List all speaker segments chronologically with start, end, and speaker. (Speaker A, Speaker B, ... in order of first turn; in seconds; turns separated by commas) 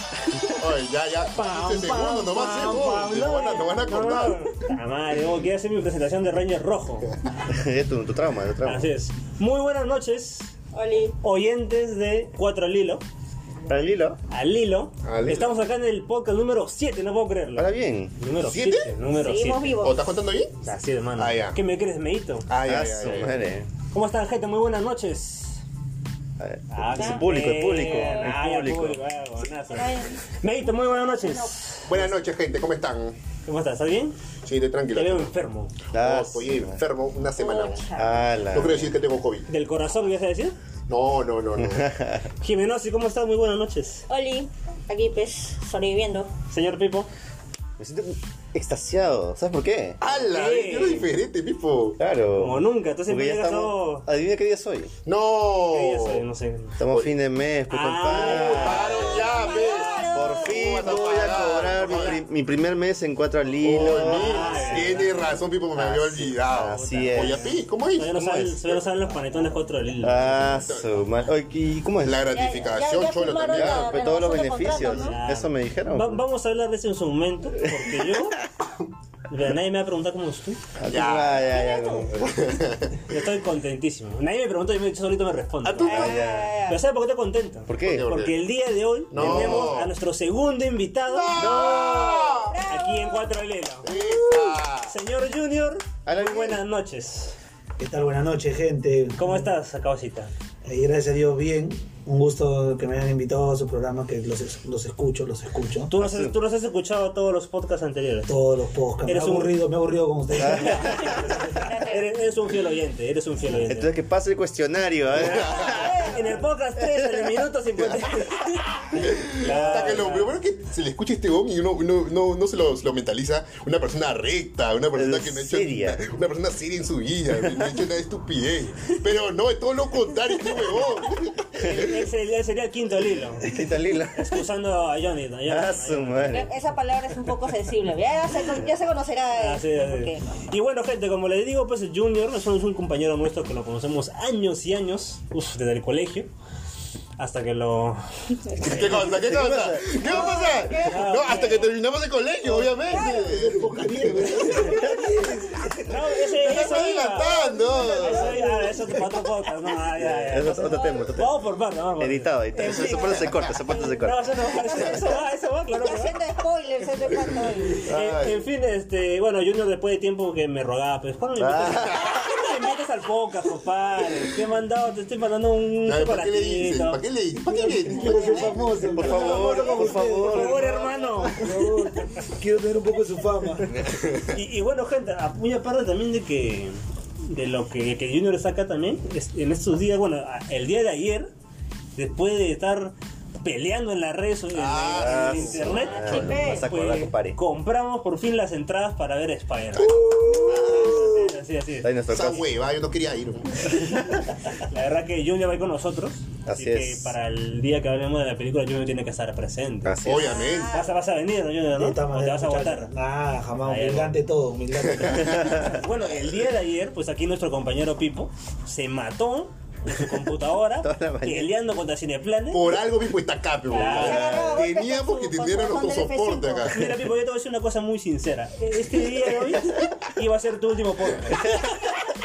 Speaker A: 0.6-4.5, Speaker B: 1.3-7.1, Speaker C: 7.5-8.9, Speaker B: 8.6-10.5, Speaker D: 10.7-11.2, Speaker B: 11.2-13.0, Speaker C: 13.7-14.2, Speaker B: 14.3-19.8, Speaker A: 15.0-15.5, Speaker C: 17.6-18.1, Speaker A: 18.4-18.9, Speaker D: 19.1-20.0, Speaker A: 19.8-20.6, Speaker B: 20.6-22.5, Speaker A: 21.2-21.6, Speaker A: 22.5-23.4, Speaker C: 22.6-23.7, Speaker B: 23.9-25.6, Speaker C: 26.4-29.0, Speaker B: 26.7-32.0, Speaker D: 27.0-27.2, Speaker D: 28.0-28.2, Speaker D: 29.7-30.2, Speaker D: 31.1-31.6, Speaker A: 31.9-33.1, Speaker B: 33.5-34.1, Speaker A: 34.5-35.3, Speaker B: 34.9-35.7, Speaker C: 35.9-36.8, Speaker A: 35.9-37.9, Speaker D: 37.4-38.5, Speaker C: 38.0-39.0, Speaker A: 38.5-39.5, Speaker B: 39.5-40.5, Speaker A: 40.9-41.9, Speaker C: 41.6-42.3, Speaker B: 42.4-44.1, Speaker D: 44.1-46.3, Speaker B: 46.5-47.1, Speaker C: 47.8-50.0, Speaker A: 50.0-52.0, Speaker B: 50.3-51.1, Speaker C: 52.0-54.9, Speaker B: 52.4-54.1, Speaker A: 55.1-56.2, Speaker B: 55.7-56.8, Speaker C: 56.8-59.2, Speaker B: 57.7-59.2, Speaker A: 58.1-62.2, Speaker D: 58.9-60.8, Speaker C: 60.1-65.1, Speaker E: 60.8-61.3, Speaker A: 63.6-68.5, Speaker B: 63.6-65.3, Speaker D: 64.5-64.8, Speaker C: 65.7-67.5, Speaker B: 66.7-70.5, Speaker C: 68.2-72.2, Speaker A: 70.4-71.2, Speaker A: 72.0-74.0, Speaker D: 72.3-75.2, Speaker C: 73.5-76.2, Speaker B: 74.8-78.4, Speaker C: 77.6-78.0, Speaker B: 79.3-80.6, Speaker C: 80.8-82.5, Speaker A: 80.9-81.5, Speaker D: 81.4-82.1, Speaker A: 82.2-83.0, Speaker B: 83.1-93.9, Speaker A: 85.6-86.2, Speaker C: 85.8-86.5, Speaker D: 85.8-86.8, Speaker C: 87.7-88.1, Speaker A: 87.8-88.3, Speaker A: 89.1-89.9, Speaker C: 89.1-89.8, Speaker A: 91.1-92.6, Speaker D: 91.3-91.9, Speaker D: 92.5-93.3, Speaker A: 93.8-94.9, Speaker B: 94.8-97.4, Speaker C: 96.1-96.6, Speaker E: 97.8-99.5, Speaker B: 99.2-100.3, Speaker E: 100.7-105.9, Speaker B: 105.9-108.4, Speaker C: 106.0-106.4, Speaker E: 108.3-111.0, Speaker B: 109.1-109.6, Speaker C: 110.4-111.1, Speaker B: 110.5-113.9, Speaker D: 110.9-112.1, Speaker C: 113.6-116.0, Speaker B: 115.2-120.3, Speaker D: 115.5-116.3, Speaker C: 116.8-117.4, Speaker A: 119.0-131.9, Speaker C: 124.9-126.0, Speaker C: 127.4-127.7, Speaker B: 131.6-133.6, Speaker C: 133.4-134.4, Speaker B: 134.1-136.5, Speaker C: 135.5-136.5, Speaker D: 136.3-140.2, Speaker B: 139.4-146.3, Speaker B: 147.2-148.8, Speaker D: 148.4-148.9, Speaker A: 148.6-154.8, Speaker C: 149.0-150.0, Speaker D: 150.0-151.7, Speaker B: 150.8-151.7, Speaker E: 152.4-156.1, Speaker D: 152.9-153.3, Speaker C: 154.7-155.1, Speaker B: 155.8-157.3, Speaker A: 156.3-158.4, Speaker E: 157.3-158.9, Speaker B: 158.0-166.2, Speaker C: 160.0-161.3, Speaker C: 162.0-164.3, Speaker D: 164.5-167.9, Speaker C: 167.8-168.4, Speaker B: 167.9-177.0, Speaker C: 171.4-172.2, Speaker A: 175.8-178.6, Speaker E: 177.5-183.8, Speaker D: 177.8-179.9, Speaker C: 178.9-180.8, Speaker B: 180.2-181.7, Speaker A: 183.9-184.2, Speaker B: 184.3-191.3, Speaker B: 191.9-201.9, Speaker A: 194.5-196.0, Speaker C: 194.9-197.4, Speaker D: 195.9-196.7, Speaker E: 199.9-200.7, Speaker C: 200.5-201.0, Speaker C: 201.8-202.5, Speaker A: 202.1-203.8, Speaker B: 204.1-210.0, Speaker C: 206.5-207.1, Speaker C: 209.8-210.6, Speaker A: 210.1-210.8, Speaker D: 210.1-210.9, Speaker B: 210.7-212.9, Speaker E: 211.7-215.8, Speaker B: 213.6-214.2, Speaker C: 215.3-215.8, Speaker B: 215.4-222.8, Speaker C: 220.8-221.5, Speaker A: 222.5-226.9, Speaker B: 223.7-224.5, Speaker D: 223.7-226.7, Speaker C: 224.1-224.6, Speaker B: 226.7-231.5